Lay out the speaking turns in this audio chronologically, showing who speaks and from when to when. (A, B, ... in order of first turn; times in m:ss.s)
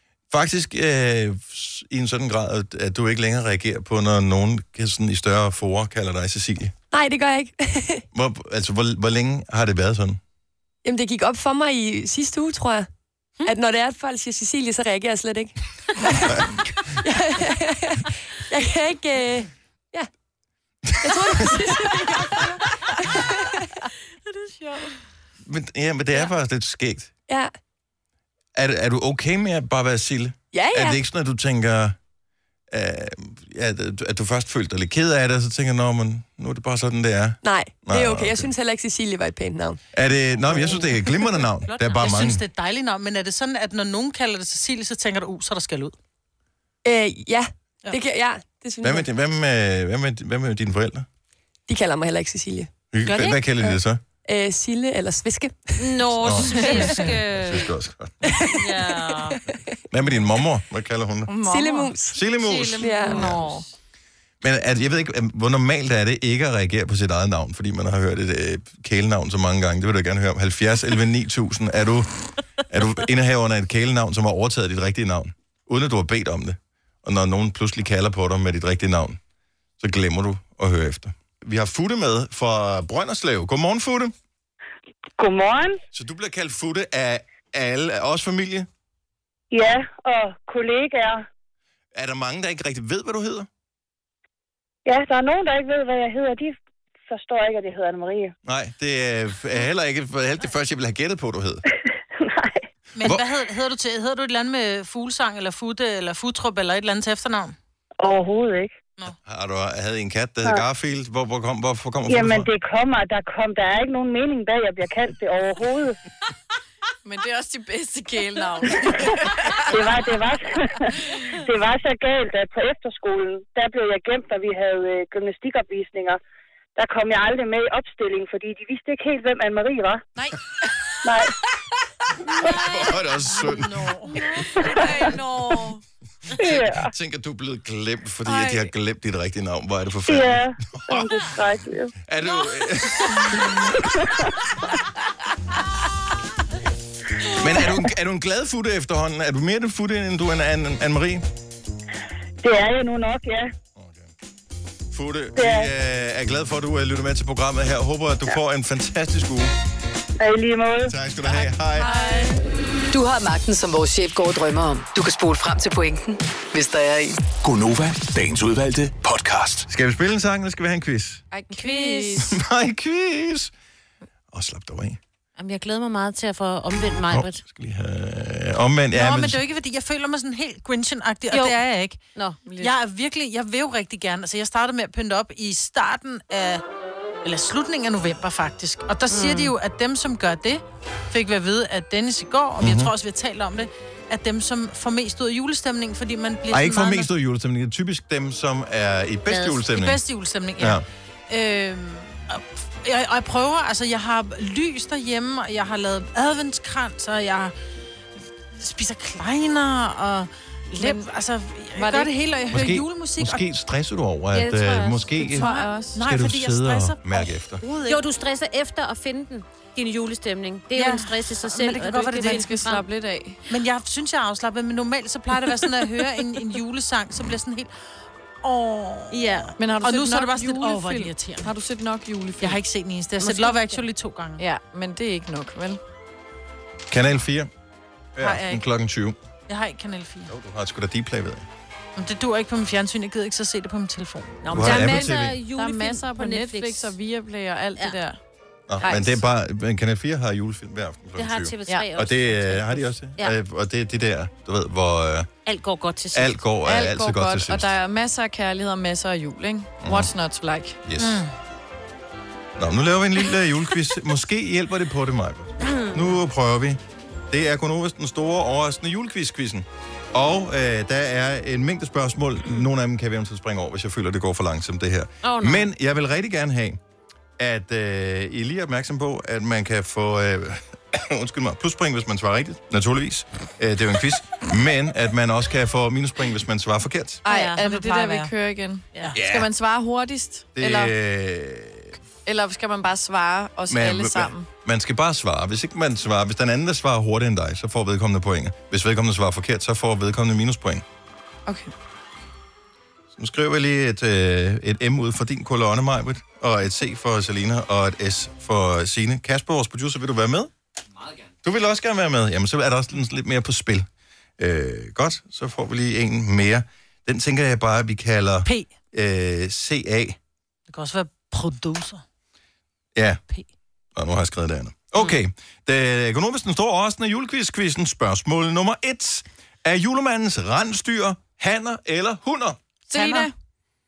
0:00.3-0:06.7 A
0:06.9-0:08.0 B
0:08.1-0:10.2 A
0:10.8-0:12.9 B
0:13.4-0:20.1 B
0:16.3-0:16.6 A
0:21.0-0:23.8 B
0:21.4-0:22.4 C
0:24.6-0:24.9 C
0:25.4-0:27.1 A
0:27.3-0:27.5 B
0:28.5-0:32.0 A
0:30.5-0:31.0 B
0:32.7-0:38.5 A
0:37.4-0:39.8 B
0:39.9-0:42.4 A
0:40.4-0:41.3 B
0:41.6-0:42.0 D
0:42.0-0:45.9 E
0:46.8-0:49.1 B
0:48.8-0:51.0 A
0:51.7-0:52.7 B
0:52.9-0:54.0 A
0:53.0-0:53.4 D
0:54.3-0:56.4 B
0:55.8-0:57.7 D
0:56.2-0:58.3 A
0:58.4-0:59.6 B
0:58.5-0:59.4 D
0:59.9-1:01.3 A
1:01.3-1:01.9 C
1:01.4-1:03.3 B
1:02.1-1:03.4 A
1:02.4-1:03.6 D
1:03.1-1:03.6 C
1:04.4-1:12.1 A
1:12.7-1:19.2 A
1:19.8-1:24.1 A
1:25.2-1:25.8 F
1:25.9-1:28.7 A
1:29.5-1:31.2 F
1:31.9-1:33.5 A
1:34.8-1:36.6 F
1:37.1-1:38.3 F
1:38.4-1:41.6 A
1:42.0-1:42.6 F
1:43.0-1:47.5 E
1:43.0-1:43.3 A
1:48.0-1:48.7 F
1:49.2-1:52.5 A
1:52.1-1:56.0 F
1:57.0-1:59.7 C
1:59.6-2:06.2 F
2:06.8-2:10.0 F
2:11.0-2:11.3 F
2:12.3-2:14.0 A
2:12.4-2:14.5 E
2:14.1-2:15.8 C
2:16.3-2:21.1 A
2:16.4-2:16.9 F
2:20.1-2:21.9 F
2:22.0-2:23.7 A
2:23.7-2:24.2 F
2:27.3-2:31.2 A
2:32.4-2:33.5 F
2:33.8-2:34.1 A
2:34.9-2:39.5 A
2:35.4-2:35.7 F
2:40.2-2:41.0 F
2:40.8-2:41.9 A
2:41.2-2:42.4 C
2:41.8-2:42.4 E
2:42.9-2:47.2 G
2:47.4-2:49.7 H
2:49.7-2:51.2 A
2:51.3-2:52.4 C
2:51.5-2:52.2 D
2:52.2-2:53.5 A
2:54.3-2:55.0 A
2:55.4-2:57.4 D
2:57.1-2:59.4 A
2:58.9-3:02.0 E
3:01.3-3:01.6 D
3:02.1-3:02.4 D
3:02.4-3:02.7 C
3:02.6-3:06.6 E
3:07.2-3:17.1 E
3:09.1-3:09.5 D
3:12.6-3:12.9 A
3:16.5-3:20.0 A
3:19.4-3:27.5 E
3:20.6-3:20.8 A
3:28.6-3:33.4 E
3:30.8-3:31.1 C
3:31.8-3:32.1 C
3:32.5-3:37.6 A
3:34.3-3:35.2 D
3:35.3-3:36.0 C
3:35.3-3:38.0 E
3:37.8-3:42.8 D
3:40.7-3:42.6 E
3:42.2-3:43.4 C
3:43.5-3:47.7 E
3:48.4-3:51.5 E
3:49.1-3:49.5 D
3:49.6-3:52.6 C
3:52.4-3:54.4 E
3:53.2-3:53.8 D
3:54.4-3:55.8 C
3:56.9-3:57.5 A
3:58.2-3:59.2 A
3:58.2-3:58.6 E
3:59.5-4:00.3 E
4:00.3-4:01.5 A
4:02.0-4:04.4 E
4:04.4-4:06.9 D
4:04.5-4:05.4 A
4:04.5-4:08.2 C
4:08.7-4:15.3 A
4:08.8-4:09.2 C
4:11.2-4:13.3 D
4:15.4-4:16.4 D
4:16.1-4:17.7 A
4:16.6-4:20.8 C
4:19.8-4:20.1 A
4:20.8-4:21.3 A
4:21.0-4:21.3 E
4:22.6-4:36.8 A
4:25.6-4:26.1 D
4:35.2-4:35.7 D
4:37.4-4:47.2 A
4:47.2-4:50.9 C
4:47.3-4:47.6 D
4:47.6-4:48.3 E
4:49.1-4:49.5 A
4:50.6-4:52.0 A
4:52.2-4:54.5 C
4:53.7-5:00.8 A
5:01.4-5:01.7 C
5:03.1-5:10.5 A
5:11.4-5:13.9 A
5:14.4-5:20.2 A
5:18.4-5:18.7 E
5:20.7-5:22.0 E
5:22.9-5:23.2 A
5:24.0-5:32.6 A
5:32.9-5:33.3 C
5:32.9-5:33.3 E